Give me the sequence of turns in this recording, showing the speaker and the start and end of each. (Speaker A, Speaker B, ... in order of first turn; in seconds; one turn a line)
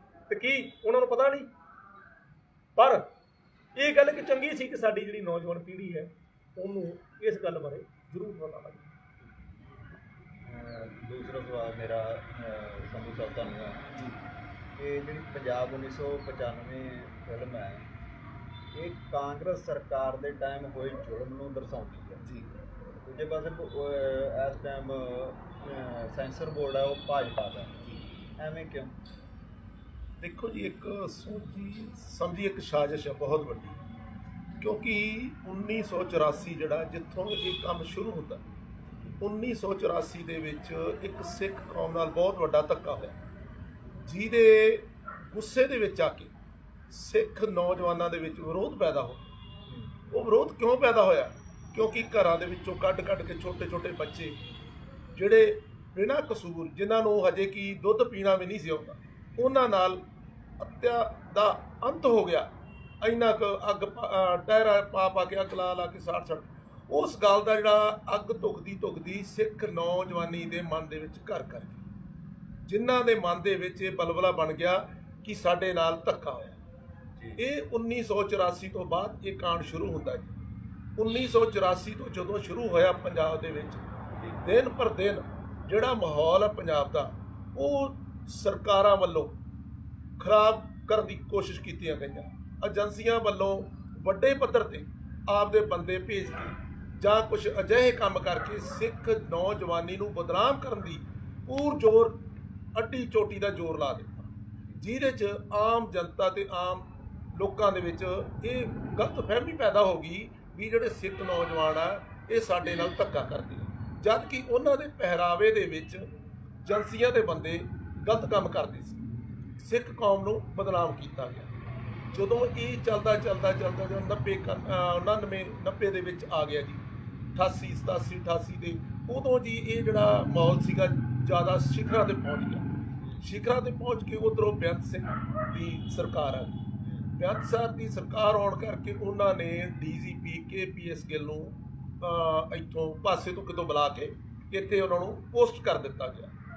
Speaker A: 0.3-1.5
Speaker A: 2.8-3.1
Speaker A: 3.8-8.9
Speaker B: 10.4-13.9
Speaker B: 14.8-17.9
Speaker B: 18.7-22.2
Speaker C: 22.2-22.5
Speaker B: 23.0-27.8
Speaker B: 28.4-29.0
Speaker C: 30.2-33.8
Speaker C: 34.6-38.4
Speaker C: 39.2-43.1
Speaker C: 44.0-46.3
Speaker C: 46.9-49.3
Speaker B: 49.7-50.2
Speaker C: 50.1-54.4
Speaker C: 55.1-60.0
Speaker C: 60.6-62.5
Speaker C: 63.0-71.8
Speaker C: 72.7-76.6
Speaker B: 77.2-77.4
Speaker C: 77.4-80.3
Speaker C: 81.0-83.8
Speaker B: 84.1-84.4
Speaker C: 84.4-89.3
Speaker C: 90.2-102.2
Speaker C: 102.8-116.1
Speaker C: 116.6-119.0
Speaker C: 119.6-121.5
Speaker C: 122.1-126.8
Speaker C: 127.3-132.7
Speaker B: 133.0-133.2
Speaker C: 133.2-136.6
Speaker B: 136.8-137.1
Speaker C: 137.2-146.3